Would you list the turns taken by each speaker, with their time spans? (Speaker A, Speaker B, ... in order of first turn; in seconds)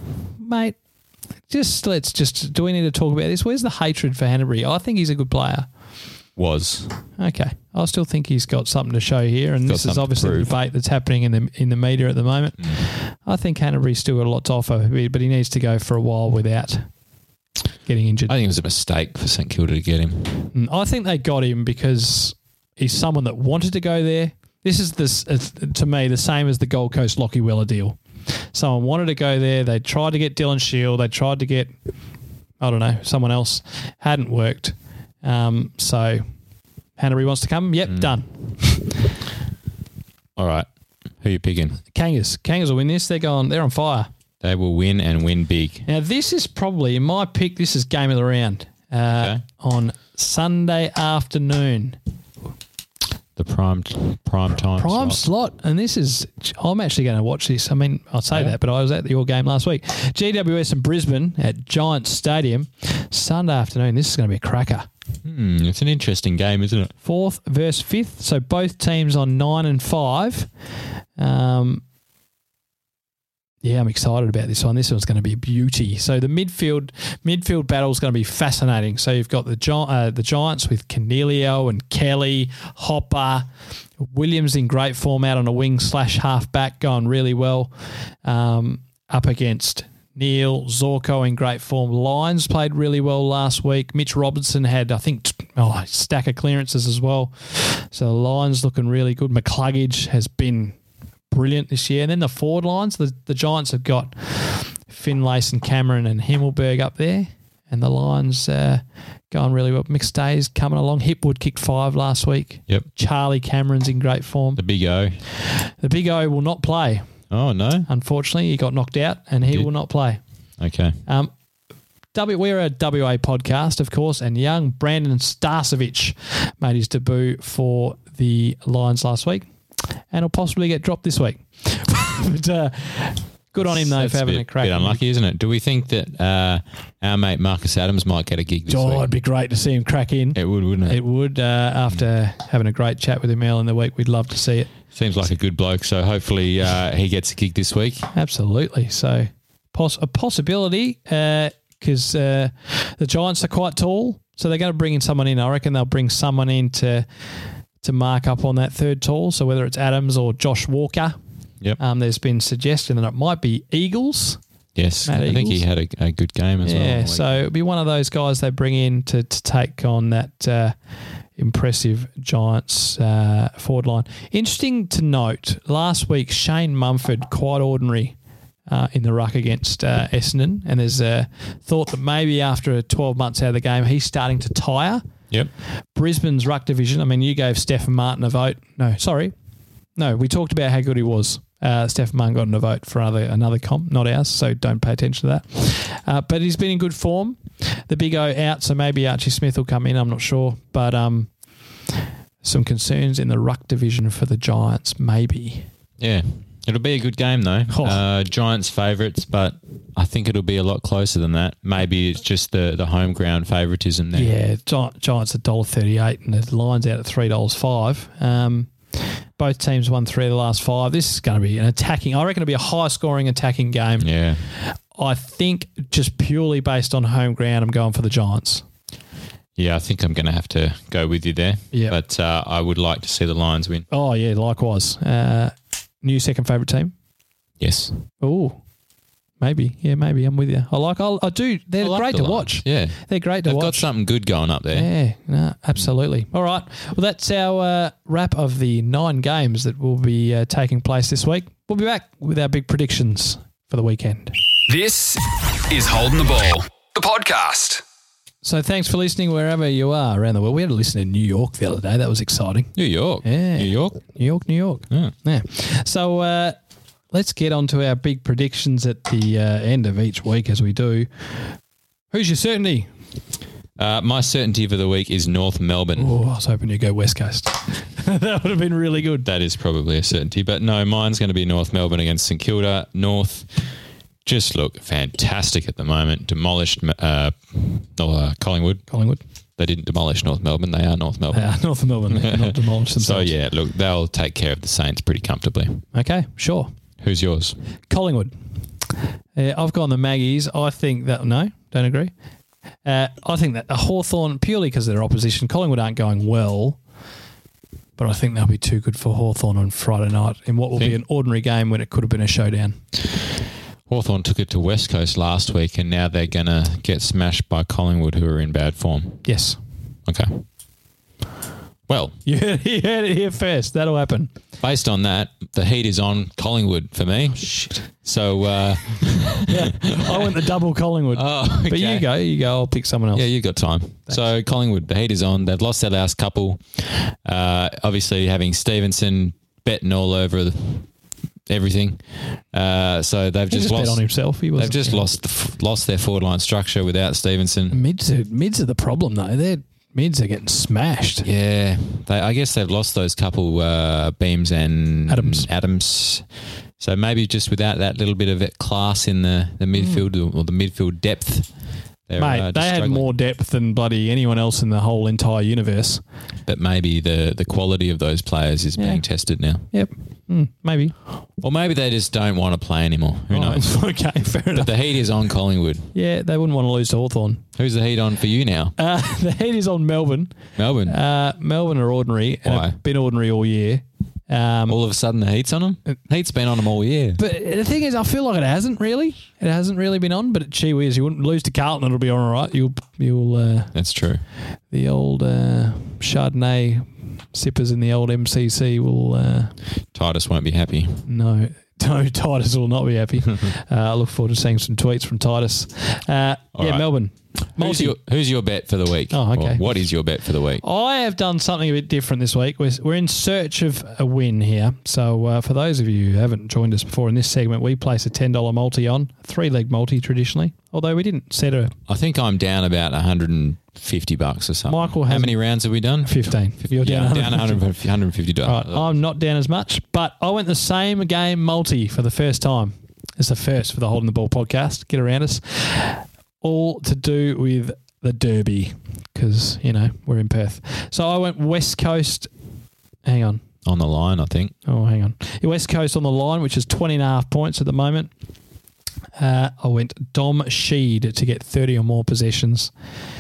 Speaker A: 0.4-0.8, 1.5-5.7, 7.2-16.9, 17.9-18.3, 20.5-31.7, 32.6-36.2, 37.0-39.0, 41.9-44.1, 45.9-52.0, 54.7-64.9, 67.0-70.5, 71.2-71.8, 73.6-83.5, 84.0-87.7, 88.2-100.8, 101.3-114.6, 115.3-117.1, 117.9-120.2, 122.1-129.4, 130.1-135.0, 138.7-144.7, 148.1-157.1, 157.8-161.1, 161.8-164.4, 165.1-165.6, 166.6-170.7, 171.4-178.2, 178.7-185.1, 185.9-189.3, 189.9-201.3, 202.4-205.7, 207.7-208.0, 214.1-228.6, 231.7-232.0, 233.9-236.9, 238.2-238.6, 239.4-243.9, 244.7-254.3, 258.4-266.6, 267.1-271.5, 272.1-272.9, 275.9-279.3, 288.9-289.2, 291.3-293.3, 295.9-296.7, 297.9-298.3, 299.4-302.1, 302.8-306.8, 308.0-312.8, 319.2-319.6, 322.2-324.3, 327.4-327.8, 329.4-333.3, 343.5-345.1, 347.7-351.3, 355.1-355.5, 359.8-360.0, 362.2-366.0, 368.8-369.0, 369.7-370.9, 373.3-374.7, 375.9-377.4, 378.8-384.8, 387.2-393.7, 394.7-399.6, 401.1-408.0, 409.1-409.7, 410.6-421.7, 424.7-425.4, 426.0-427.6, 428.4-442.3, 443.1-443.4, 444.7-448.1, 449.2-452.7
Speaker B: 6.4-7.0, 9.7-10.5, 18.3-20.5, 40.4-40.7, 41.2-41.8, 44.4-45.9, 49.1-49.4, 53.4-55.2, 65.2-66.9, 114.6-115.2, 117.3-117.9, 120.6-121.0, 133.6-139.1, 140.3-141.0, 144.9-148.1, 164.7-167.4, 206.0-214.3, 224.0-224.4, 229.6-233.9, 237.6-238.0, 241.8-244.9, 262.7-264.0, 273.8-276.1, 279.2-283.7, 284.2-288.8, 289.6-291.5, 292.1-295.8, 297.0-297.6, 313.9-319.2, 320.1-320.4, 321.9-322.2, 324.6-330.5, 331.1-332.1, 333.1-340.9, 341.5-344.0, 344.6-347.8, 351.2-356.2, 356.8-361.5, 362.1-363.1, 366.4-369.6, 371.4-373.7, 374.6-375.9, 377.6-378.7, 380.6-381.0, 382.4-382.8, 384.7-387.2, 393.7-394.2, 399.9-401.1, 406.6-406.9, 407.6-410.6, 421.9-428.9, 443.6-444.5
Speaker C: 254.7-257.8